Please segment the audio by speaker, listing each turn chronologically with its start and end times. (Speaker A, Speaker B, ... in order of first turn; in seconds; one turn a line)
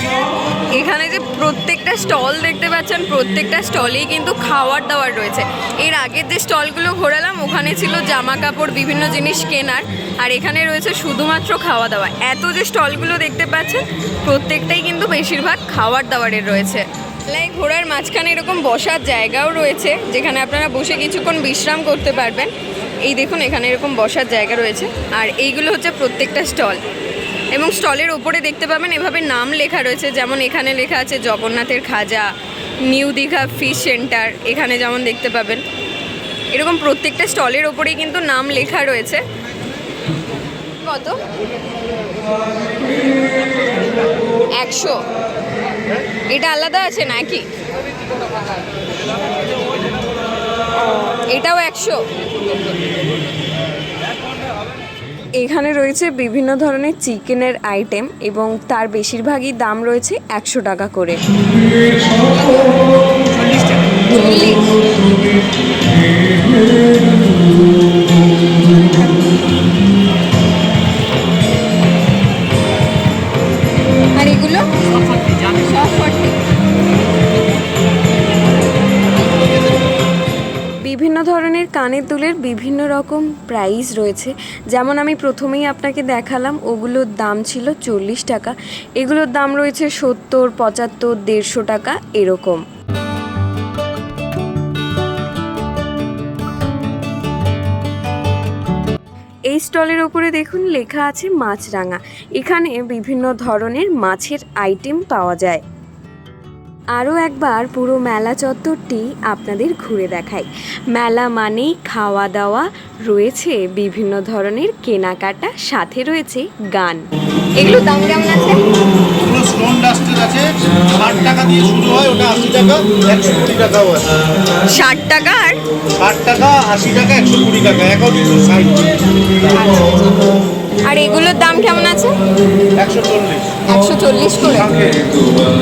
Speaker A: 0.7-22.5
Speaker A: 23.0-26.8
Speaker A: 27.5-32.3
Speaker A: 32.8-35.6
Speaker A: 36.5-39.2
Speaker A: 40.8-41.2
Speaker A: 44.5-45.0
Speaker A: 46.3-47.4
Speaker A: 51.3-52.0
Speaker A: 55.4-56.8
Speaker B: 55.4-61.2
Speaker A: 62.1-62.8
Speaker A: 64.0-64.8
Speaker A: 74.1-76.3
Speaker B: 80.9-92.6
Speaker B: 99.5-105.6
Speaker B: 107.0-117.0
Speaker A: 117.6-118.7
Speaker C: 119.2-124.1
Speaker A: 124.6-125.6
Speaker C: 126.0-129.8
Speaker A: 129.6-130.2
Speaker A: 130.8-132.2
Speaker C: 132.8-133.5
Speaker A: 133.7-134.8